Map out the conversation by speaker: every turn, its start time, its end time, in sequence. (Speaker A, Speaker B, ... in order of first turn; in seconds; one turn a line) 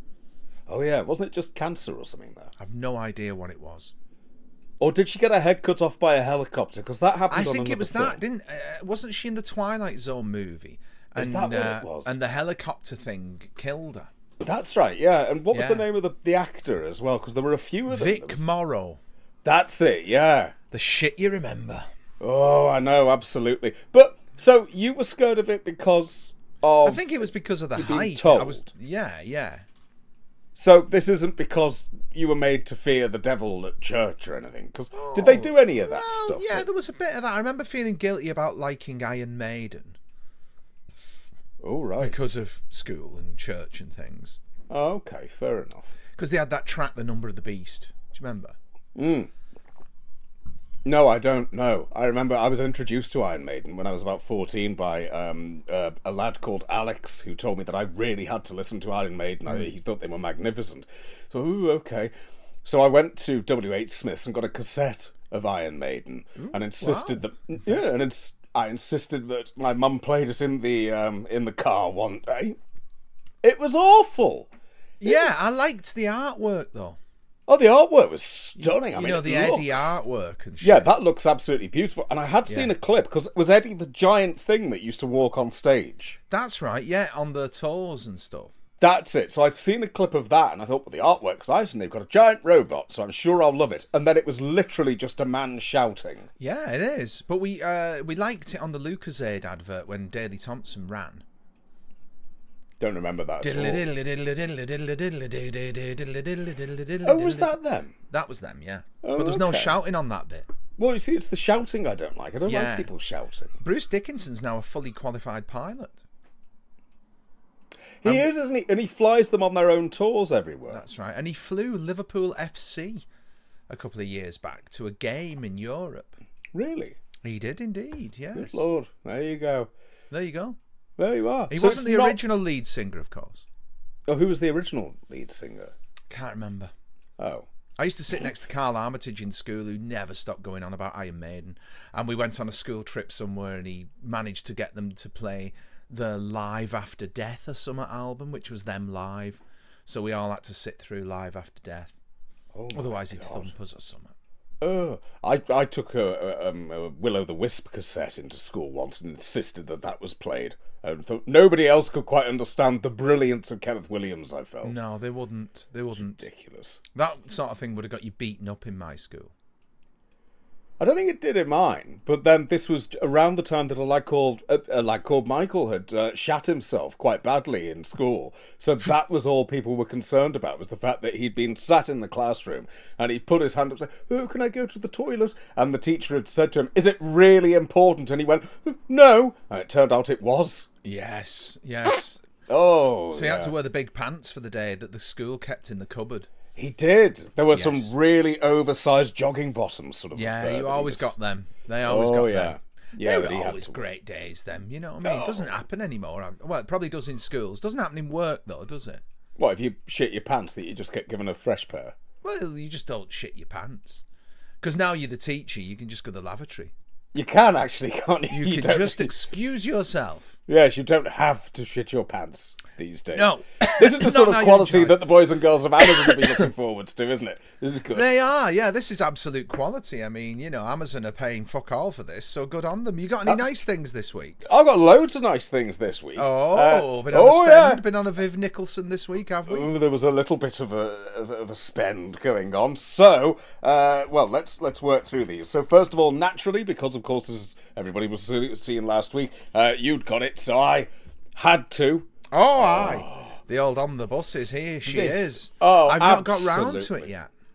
Speaker A: 0.7-2.5
Speaker B: 2.6-3.9
Speaker A: 4.8-8.2
Speaker B: 7.3-14.1
Speaker A: 11.2-12.2
Speaker A: 14.4-18.4
Speaker B: 15.5-15.9
Speaker B: 17.9-19.0
Speaker A: 19.4-20.5
Speaker B: 20.7-21.9
Speaker A: 22.2-28.7
Speaker B: 26.8-29.6
Speaker A: 30.6-36.7
Speaker B: 34.9-40.0
Speaker A: 41.6-42.3
Speaker B: 42.0-44.4
Speaker A: 44.7-46.0
Speaker B: 46.2-48.6
Speaker A: 49.0-49.3
Speaker A: 50.8-62.1
Speaker A: 62.6-72.6
Speaker B: 66.4-68.0
Speaker A: 73.4-74.5
Speaker B: 75.0-77.0
Speaker A: 75.0-75.3
Speaker A: 77.5-80.0
Speaker B: 78.6-81.0
Speaker A: 80.6-86.2
Speaker B: 86.3-88.5
Speaker A: 88.8-96.3
Speaker B: 96.4-101.2
Speaker A: 102.8-103.9
Speaker B: 103.4-107.5
Speaker A: 107.0-108.0
Speaker B: 108.1-110.5
Speaker A: 109.0-109.8
Speaker A: 110.8-113.5
Speaker B: 112.5-112.9
Speaker B: 113.6-116.0
Speaker A: 118.0-120.8
Speaker B: 120.7-123.0
Speaker B: 123.7-126.2
Speaker A: 126.5-127.0
Speaker B: 127.2-128.7
Speaker A: 128.4-129.7
Speaker B: 130.1-130.6
Speaker A: 131.0-132.2
Speaker B: 131.5-133.5
Speaker A: 134.1-135.7
Speaker B: 136.1-136.7
Speaker A: 137.2-137.5
Speaker B: 137.8-151.9
Speaker A: 152.5-153.5
Speaker B: 152.7-154.1
Speaker A: 154.6-164.8
Speaker B: 164.6-166.2
Speaker A: 165.9-166.8
Speaker B: 166.9-169.3
Speaker A: 170.8-190.7
Speaker B: 190.8-192.2
Speaker A: 192.5-193.5
Speaker B: 192.8-196.3
Speaker A: 196.6-201.2
Speaker B: 197.5-197.9
Speaker B: 200.1-209.0
Speaker A: 201.8-203.8
Speaker A: 205.0-205.5
Speaker A: 209.4-211.9
Speaker B: 212.2-214.0
Speaker B: 214.6-216.7
Speaker A: 217.1-219.1
Speaker B: 218.3-220.4
Speaker A: 220.5-228.1
Speaker B: 223.1-225.0
Speaker B: 225.9-226.5
Speaker B: 227.9-234.4
Speaker A: 234.4-237.8
Speaker B: 236.2-239.7
Speaker A: 239.5-253.3
Speaker B: 252.3-257.3
Speaker A: 254.9-257.1